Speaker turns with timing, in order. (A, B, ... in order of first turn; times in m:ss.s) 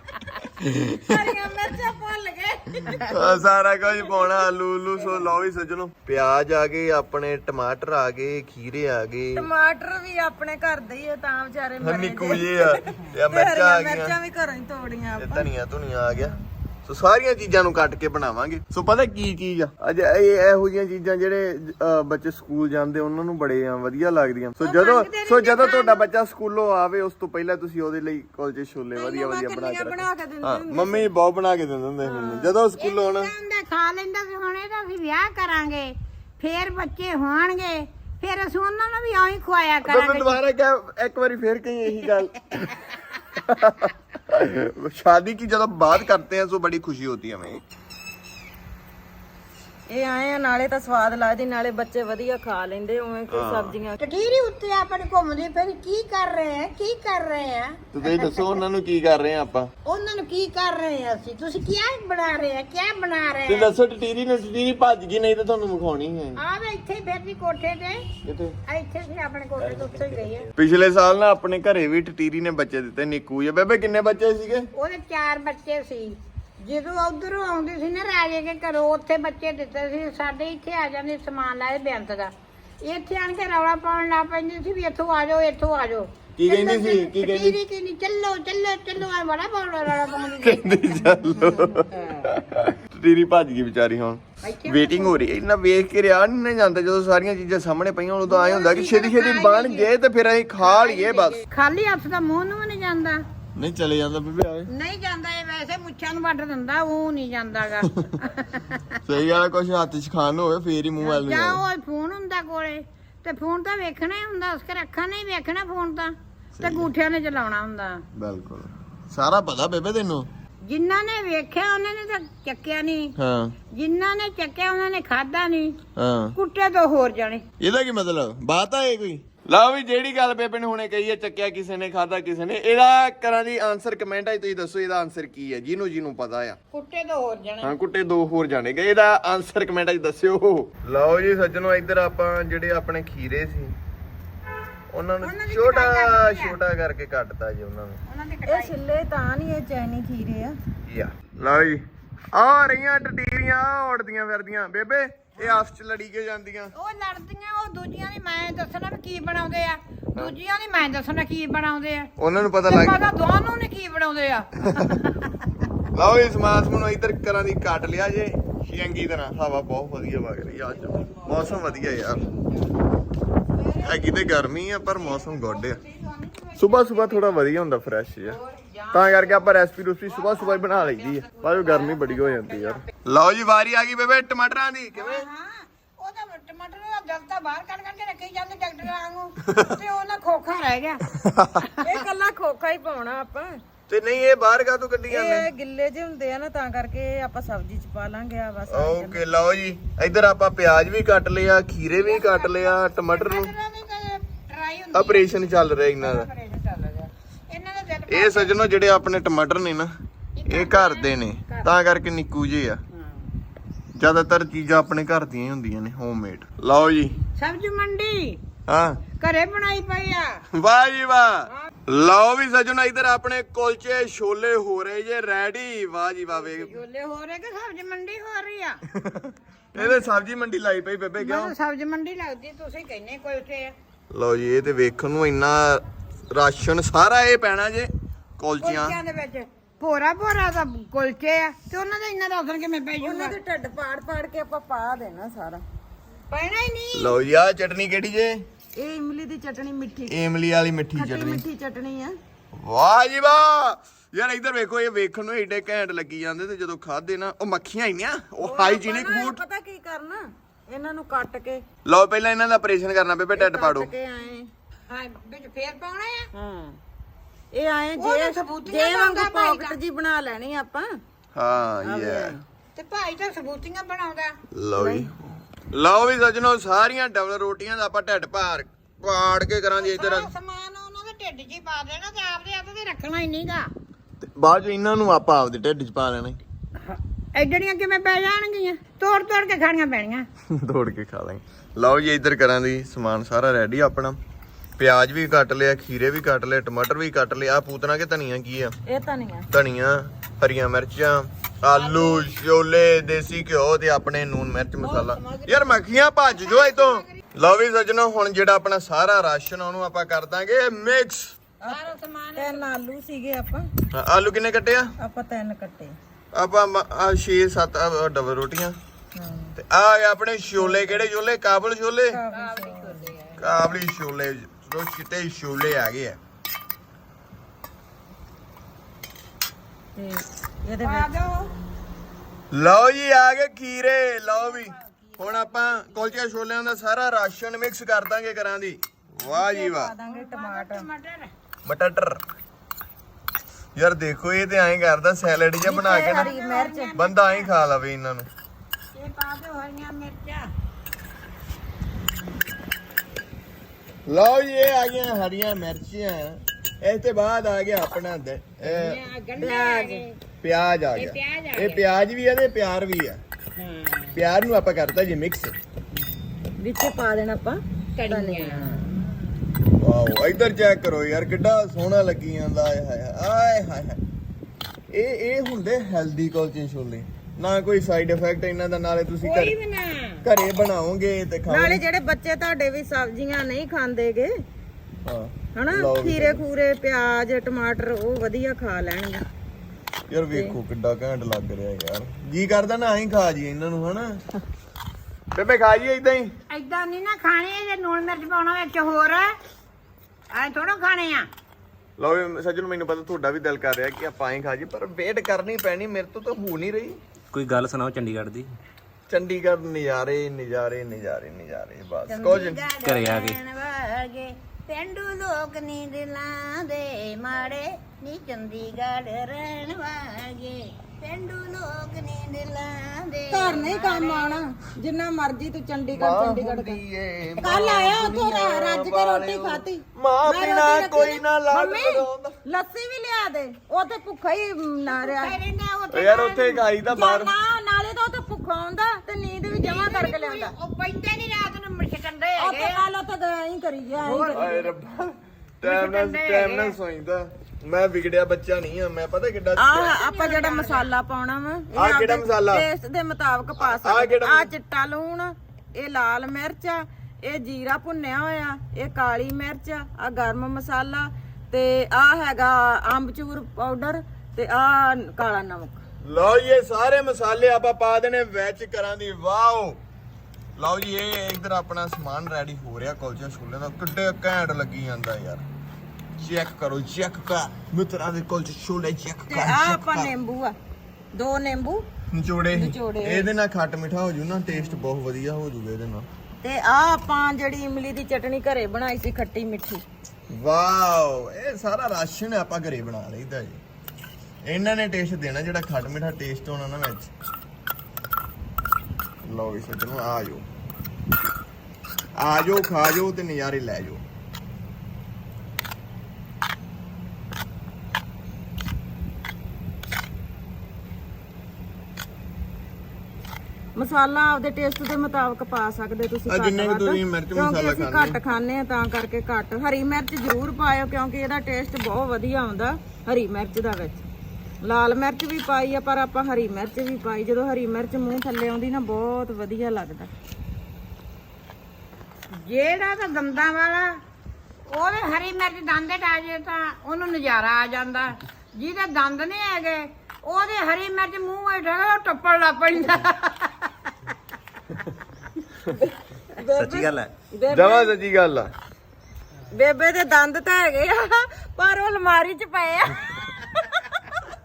0:00.6-0:01.0 A
0:01.0-0:04.4 B
0:03.1-0:09.5 A
0:05.0-0:05.2 B
0:09.4-0:15.5 B
0:11.8-0:14.2 A
0:15.2-0:33.3 A
0:16.1-0:16.4 B
0:24.6-0:26.1 C
0:29.0-0:31.1 B
0:32.0-0:32.5 B
0:32.8-0:40.4 C
0:39.8-0:42.7 A
0:43.4-0:47.6 A
0:49.9-0:54.0 B
0:53.3-0:53.8 A
0:54.0-0:58.6 C
0:57.9-0:59.7 A
0:59.9-1:03.7 C
1:03.5-1:06.4 A
1:06.4-1:08.0 C
1:08.2-1:08.6 A
1:08.7-1:10.5 C
1:10.5-1:14.7 A
1:14.8-1:22.3 C
1:22.8-1:31.1 C
1:26.4-1:27.6 A
1:30.4-1:41.4 A
1:31.9-1:32.3 C
1:34.4-1:35.2 C
1:38.3-1:39.9 C
1:40.6-1:43.2 C
1:43.6-1:44.7 A
1:44.7-1:48.8 C
1:49.1-1:51.6 A
1:51.0-1:58.0 C
1:56.6-1:56.9 A
1:58.2-2:00.3 A
2:00.7-2:03.1 C
2:03.2-2:03.6 A
2:03.7-2:05.8 C
2:06.0-2:06.4 A
2:06.4-2:07.4 C
2:07.6-2:16.6 A
2:16.7-2:17.7 C
2:17.6-2:23.8 A
2:24.9-2:28.0 A
2:25.2-2:26.6 C
2:28.1-2:28.7 C
2:28.5-2:30.6 B
2:30.9-2:36.7 A
2:36.8-2:42.1 C
2:42.2-2:43.1 A
2:42.7-2:45.2 C
2:45.9-2:52.2 A
2:53.6-2:54.1 C
2:53.8-2:55.8 A
2:55.0-2:57.4 C
2:56.6-2:58.4 A
2:58.2-2:59.5 C
2:58.9-3:05.3 A
3:00.1-3:02.8 C
3:05.0-3:11.0 C
3:11.1-3:11.6 A
3:11.8-3:13.6 B
3:13.9-3:15.5 A
3:15.1-3:19.2 B
3:18.7-3:23.5 A
3:21.9-3:28.6 C
3:24.9-3:26.3 A
3:28.1-3:29.9 A
3:30.4-3:31.7 C
3:30.5-3:32.8 A
3:32.9-3:33.2 C
3:34.0-3:37.2 A
3:37.4-3:38.4 C
3:38.7-3:39.0 A
3:39.2-3:40.4 C
3:40.5-3:46.8 A
3:46.4-3:48.8 C
3:48.9-3:51.5 A
3:49.8-3:50.2 C
3:51.2-3:53.8 C
3:54.1-3:59.0 A
3:58.6-4:03.4 C
4:03.0-4:05.6 B
4:06.3-4:07.2 C
4:06.9-4:08.4 A
4:08.8-4:10.1 B
4:10.1-4:11.4 A
4:11.0-4:12.2 B
4:12.5-4:19.4 A
4:18.4-4:21.6 B
4:21.9-4:23.9 A
4:23.4-4:24.5 B
4:24.9-4:26.3 C
4:26.4-4:26.7 B
4:27.5-4:31.0 B
4:28.0-4:29.8 C
4:31.4-4:32.4 A
4:31.8-4:32.4 B
4:32.8-4:34.4 C
4:34.5-4:40.3 A
4:34.8-4:35.1 B
4:39.8-4:43.7 C
4:44.4-4:46.4 A
4:46.8-4:50.2 C
4:50.5-4:54.2 A
4:54.8-4:58.8 A
4:58.9-4:59.5 B
4:59.5-5:11.4 A
5:01.7-5:02.3 C
5:04.8-5:05.8 C
5:06.3-5:07.2 C
5:11.7-5:12.7 C
5:12.4-5:13.7 B
5:13.9-5:14.9 A
5:15.0-5:16.0 B
5:16.3-5:18.8 A
5:19.2-5:19.6 B
5:19.6-5:22.2 A
5:20.6-5:21.0 B
5:22.1-5:23.0 B
5:22.3-5:23.5 C
5:23.4-5:26.2 A
5:30.0-5:31.1 B
5:30.8-5:31.5 C
5:32.5-5:39.9 A
5:39.3-5:40.9 B
5:40.0-5:41.3 C
5:41.6-5:42.2 A
5:43.8-5:46.3 A
5:45.6-5:46.9 B
5:45.8-5:47.5 C
5:47.0-5:48.3 A
5:49.0-5:50.5 C
5:54.1-5:59.0 A
5:58.7-6:00.2 C
5:59.4-6:00.0 B
6:00.4-6:03.2 A
6:01.0-6:01.8 C
6:03.6-6:04.2 C
6:04.2-6:05.6 A
6:06.6-6:08.8 B
6:08.0-6:08.9 C
6:09.8-6:14.0 A
6:14.9-6:19.6 A
6:19.2-6:20.2 C
6:20.2-6:21.8 A
6:21.5-6:24.3 B
6:25.0-6:26.4 A
6:25.5-6:29.2 B
6:30.1-6:34.2 A
6:30.3-6:30.6 B
6:35.4-6:36.3 A
6:36.5-6:39.3 C
6:40.4-6:41.3 C
6:42.0-6:47.0 A
6:47.3-6:48.5 D
6:49.1-6:52.6 A
6:52.1-7:04.4 C
6:52.8-6:53.4 D
7:03.3-7:06.8 B
7:05.9-7:12.3 A
7:07.4-7:15.4 B
7:14.9-7:16.6 C
7:15.9-7:17.3 A
7:16.9-7:20.5 B
7:19.5-7:22.8 C
7:22.4-7:24.6 B
7:24.0-7:24.6 C
7:24.3-7:29.9 A
7:25.6-7:26.8 C
7:29.6-7:45.8 B
7:29.8-7:30.9 C
7:31.7-7:32.7 A
7:33.6-7:34.5 A
7:46.0-7:49.8 A
7:50.6-7:55.4 A
7:56.2-8:00.1 A
7:59.3-8:00.6 B
8:01.1-8:01.8 B
8:02.1-8:06.1 A
8:02.5-8:03.3 B
8:06.4-8:09.8 B
8:10.3-8:13.6 A
8:14.4-8:17.1 A
8:19.2-8:20.5 A
8:22.2-8:24.0 A
8:33.8-8:44.0 B
8:36.3-8:38.2 A
8:44.6-8:50.1 B
8:52.4-8:54.0 C
8:54.7-9:03.7 C
9:05.8-9:07.9 B
9:06.6-9:07.1 D
9:07.5-9:08.5 A
9:09.5-9:13.7 B